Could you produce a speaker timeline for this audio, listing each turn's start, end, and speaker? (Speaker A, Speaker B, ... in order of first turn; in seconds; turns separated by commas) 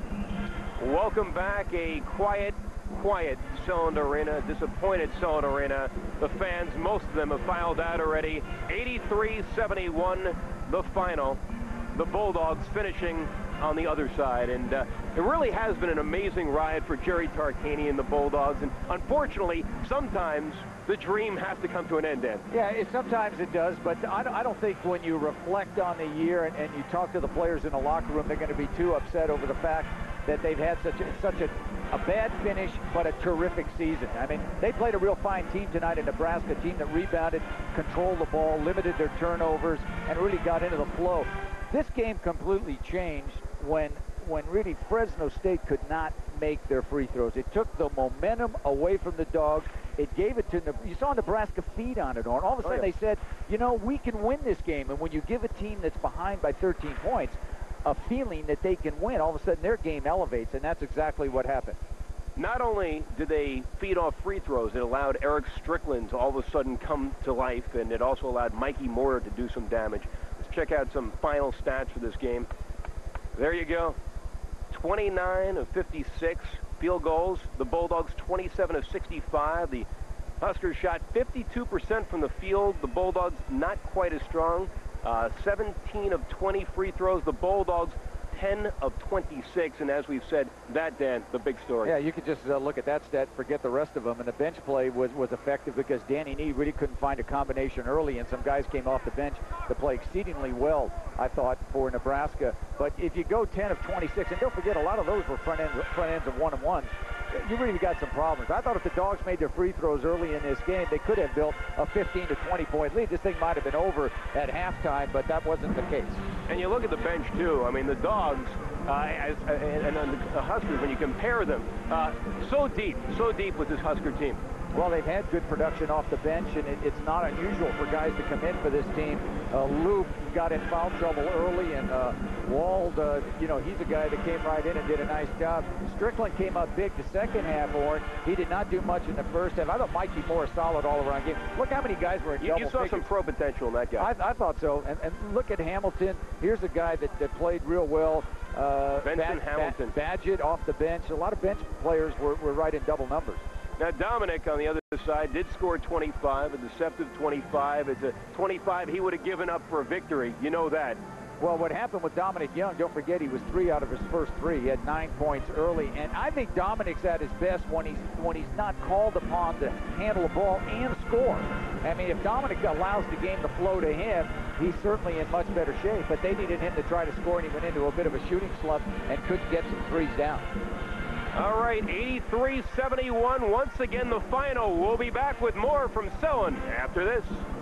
Speaker A: 0.8-11.4, Speaker A: 11.9-22.4, Speaker B: 22.5-61.8, Speaker A: 52.6-52.9, Speaker A: 62.4-72.5, Speaker A: 73.3-74.0, Speaker A: 74.7-79.9, Speaker A: 80.4-91.9, Speaker B: 91.8-116.2, Speaker A: 116.5-124.4, Speaker B: 124.7-143.1, Speaker A: 142.4-144.1, Speaker B: 144.0-153.4, Speaker A: 149.0-149.9, Speaker A: 153.8-161.0, Speaker B: 161.4-180.5, Speaker A: 181.3-187.4